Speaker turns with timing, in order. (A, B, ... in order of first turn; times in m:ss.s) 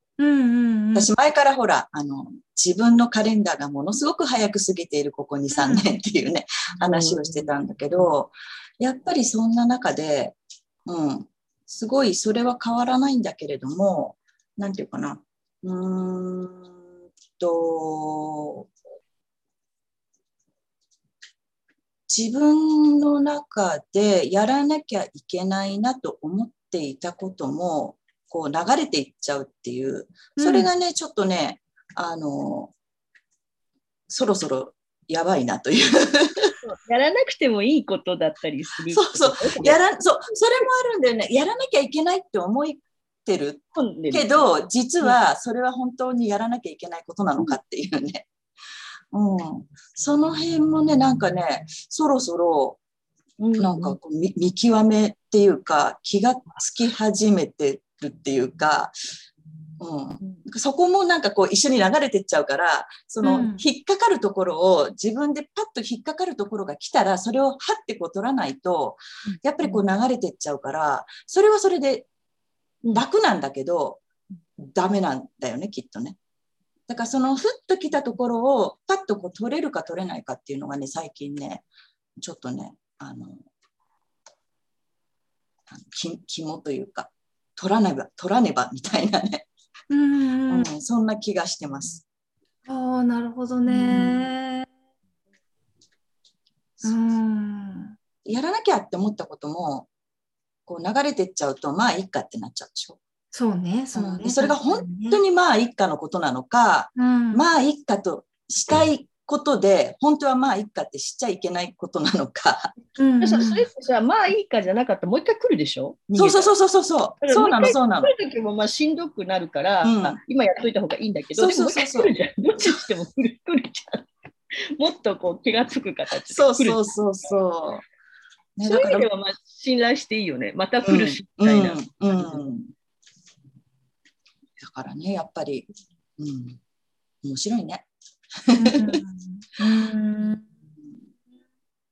0:00.2-0:01.1 A
0:00.9-0:16.7 B
0:05.5-0:05.9 A
0:06.8-0:07.5 C
0:17.4-0:18.7 B
0:22.1-0:32.7 B
0:30.4-0:30.7 A
0:34.1-0:36.5 B
0:36.6-0:39.8 C
0:38.9-0:48.2 B
0:43.7-0:44.5 C
0:49.1-0:52.8 B
0:53.4-0:54.0 C
0:53.6-0:58.9 B
0:59.8-1:12.1 B
1:03.2-1:03.6 A
1:09.3-1:09.8 C
1:12.9-1:14.0 B
1:14.7-1:16.2 B
1:16.9-1:21.6 B
1:22.2-1:23.4 B
1:25.7-1:29.4 B
1:29.9-1:30.7 A
1:30.5-1:32.0 B
1:32.6-1:34.7 A
1:33.7-1:34.1 C
1:36.8-1:37.9 A
1:38.2-1:39.9 B
1:40.6-1:43.0 B
1:43.3-1:45.2 A
1:43.9-1:52.7 B
1:47.0-1:47.4 A
1:53.0-1:53.7 A
1:53.2-1:56.5 C
1:56.1-1:58.1 B
1:57.2-2:04.1 C
1:59.8-2:00.2 B
2:01.4-2:02.8 B
2:04.7-2:06.8 C
2:06.3-2:07.8 B
2:08.6-2:09.1 B
2:08.6-2:12.4 C
2:10.8-2:12.7 B
2:14.6-2:16.6 B
2:17.2-2:17.8 B
2:18.5-2:19.0 B
2:18.6-2:20.4 A